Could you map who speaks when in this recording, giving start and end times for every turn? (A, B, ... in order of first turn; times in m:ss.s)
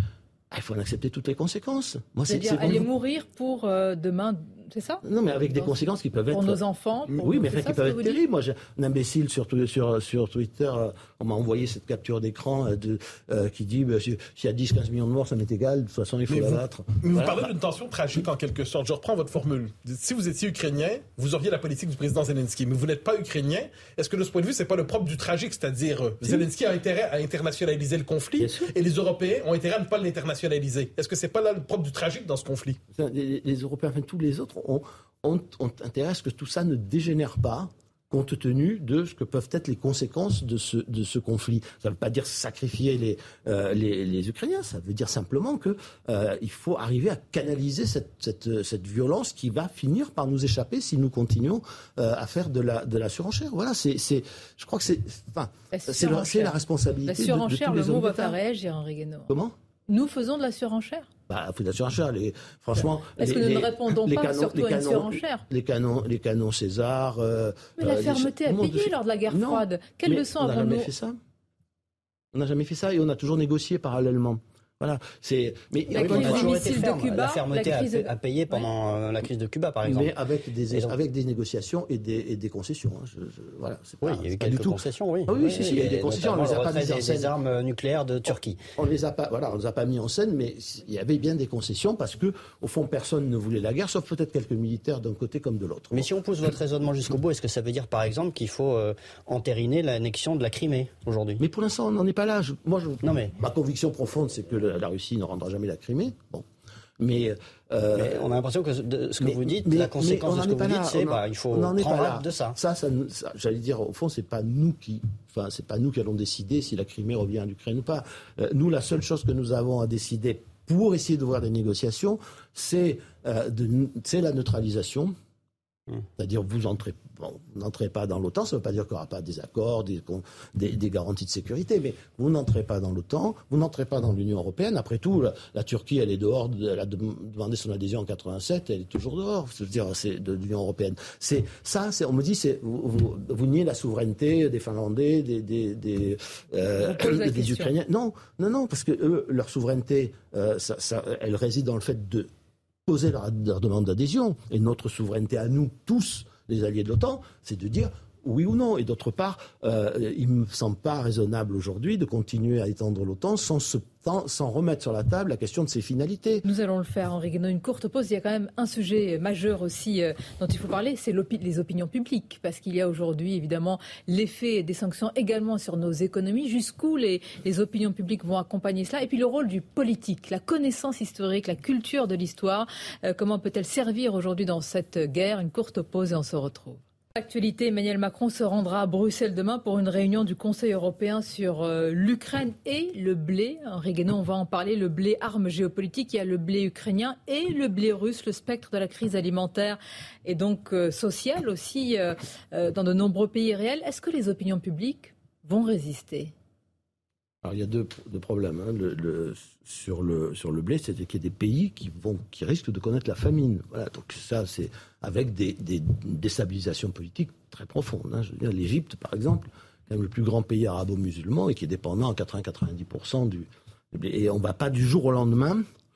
0:00.5-0:02.9 A
0:02.3-0:05.0 B
0:05.0-0:17.5 A
0:06.3-0:08.2 B
0:16.3-0:32.8 C
0:28.4-0:28.7 A
0:32.9-0:58.4 A
0:55.7-0:59.3 B
0:59.3-0:59.5 A
0:59.9-1:01.1 B
1:01.3-1:11.2 A
1:03.1-1:05.4 B
1:07.8-1:10.9 B
1:12.3-1:16.8 A
1:15.9-1:18.7 B
1:15.9-1:20.1 D
1:19.8-1:27.3 A
1:24.0-1:28.6 D
1:28.3-1:36.1 A
1:35.9-1:41.4 D
1:41.4-1:46.4 A
1:43.0-1:43.3 D
1:47.0-1:48.3 A
1:47.9-1:52.6 D
1:49.2-2:05.1 A
2:06.2-2:32.3 A
2:26.8-2:27.7 B
2:32.8-2:46.4 A
2:46.4-3:26.3 B
3:27.4-3:45.6 A